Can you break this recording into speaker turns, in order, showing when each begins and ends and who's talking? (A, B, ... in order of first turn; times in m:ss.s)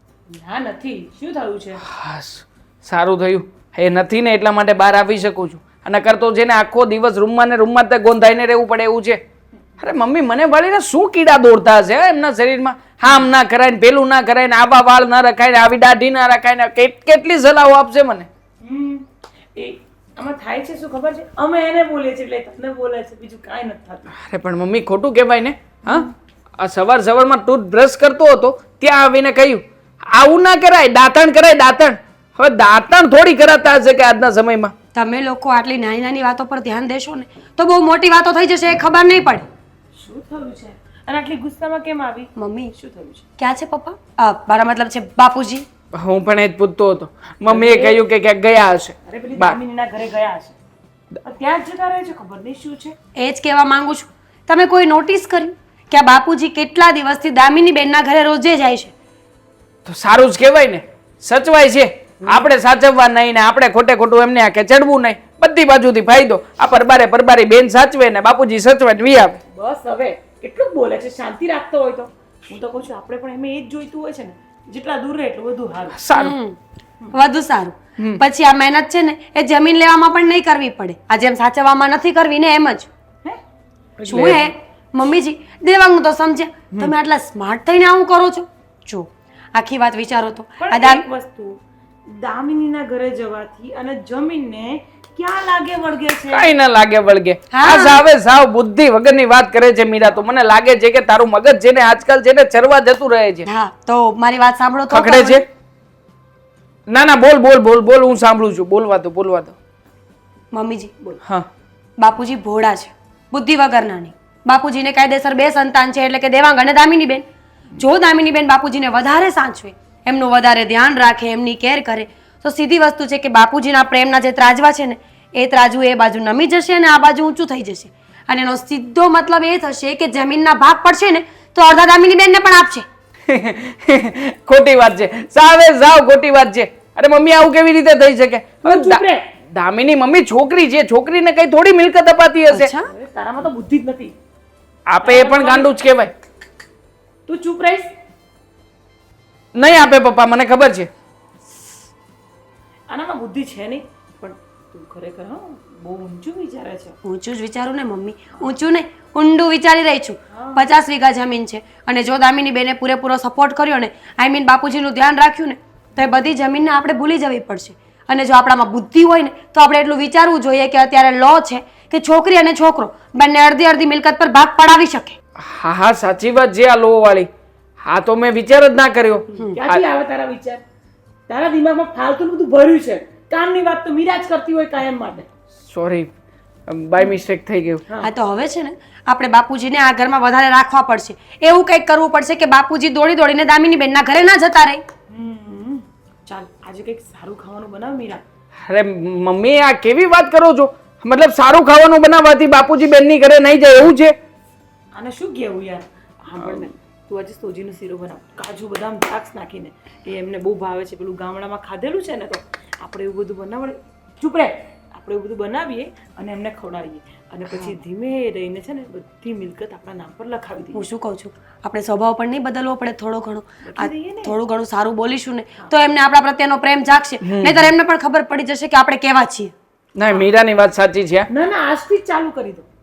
0:00.3-0:01.8 A
0:01.9-0:09.2 B
0:09.8-0:18.3 B
0:18.6-0:19.0 A
0:19.6-0:24.1 A
0:24.1-0:26.1 B
0:26.6-0:34.7 B
0:35.0-0:39.5 C
0:40.0-0:43.2 A
0:42.4-0:42.7 C
0:43.4-0:45.7 C
0:45.9-0:49.6 B
0:47.5-0:48.0 A
0:49.0-0:50.6 A
0:51.2-0:53.0 A
0:53.2-0:58.9 C
0:59.8-1:09.4 B
1:09.5-1:16.0 A
1:16.0-1:16.4 B
1:16.1-1:16.6 C
1:17.1-1:22.9 C
1:24.0-1:24.4 A
1:24.1-1:31.0 C
1:30.6-1:36.5 A
1:36.3-1:43.5 B
1:37.5-1:38.1 C
1:43.5-1:45.4 C
1:44.9-1:45.4 B
1:46.9-1:49.6 B
1:50.5-1:50.9 C
1:52.0-1:57.2 C
1:57.8-2:12.8 C
2:13.3-2:22.7 B
2:18.6-2:19.3 A
2:22.5-2:22.9 C
2:22.8-2:24.2 A
2:24.9-2:26.2 B
2:25.0-2:25.7 A
2:27.3-2:27.9 A
2:29.6-2:30.9 B
2:32.9-2:37.0 A
2:37.0-2:55.2 C
2:40.3-2:40.7 A
2:55.4-2:57.3 B
2:57.8-2:59.8 B
2:59.4-3:00.6 A
3:01.3-3:05.3 A
3:05.7-3:06.1 B
3:06.7-3:07.8 B
3:08.0-3:14.8 C
3:15.1-3:18.2 A
3:18.7-3:24.2 B
3:24.9-3:40.8 A
3:40.8-3:49.5 C
3:43.7-3:44.4 A
3:47.2-3:47.7 B
3:50.0-3:51.3 B
3:51.3-3:52.7 A